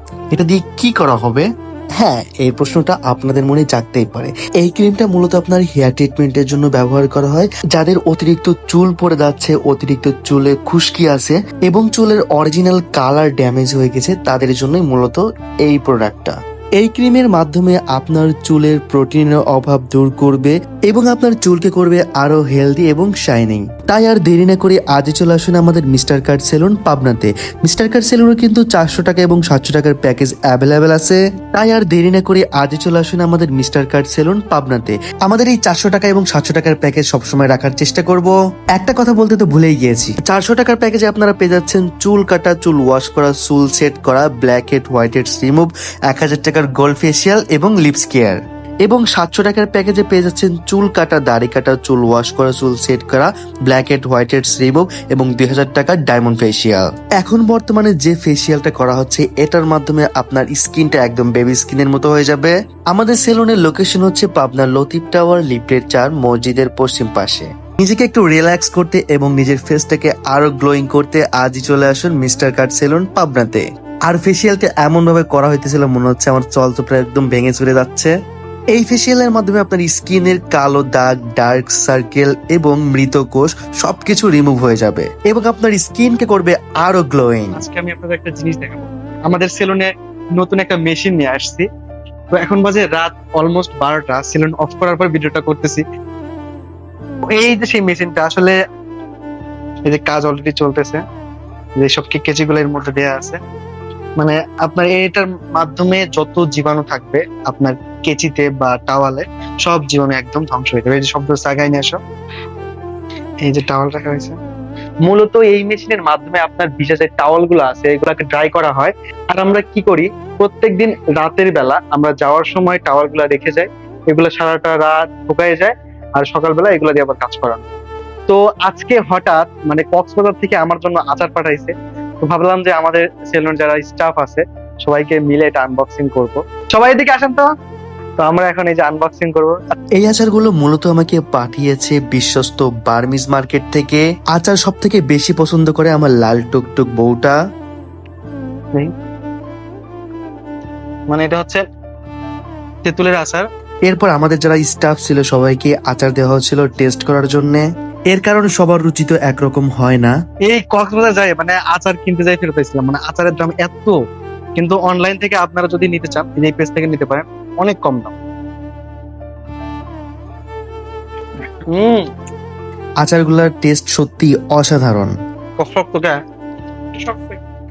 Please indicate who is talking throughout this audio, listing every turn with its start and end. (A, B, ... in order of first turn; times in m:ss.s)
0:00.3-0:01.4 A
0:02.0-1:18.1 A
1:18.7-1:27.6 A
1:27.5-1:31.6 B
1:32.3-1:35.8 B
1:37.3-1:38.5 B
1:39.9-1:41.0 B
1:41.8-1:43.4 B
1:44.2-1:52.0 B
1:53.4-1:54.4 B
1:55.0-2:07.6 B
2:08.3-2:17.5 B
2:18.2-2:19.6 B
2:20.0-2:27.4 A
2:31.1-2:31.6 B
2:32.8-2:33.4 B
2:33.9-2:40.1 A
2:40.5-2:44.0 B
2:44.6-2:48.1 B
2:51.7-2:52.0 B
2:53.0-2:55.1 A
2:55.6-2:56.2 B
2:57.0-2:57.4 B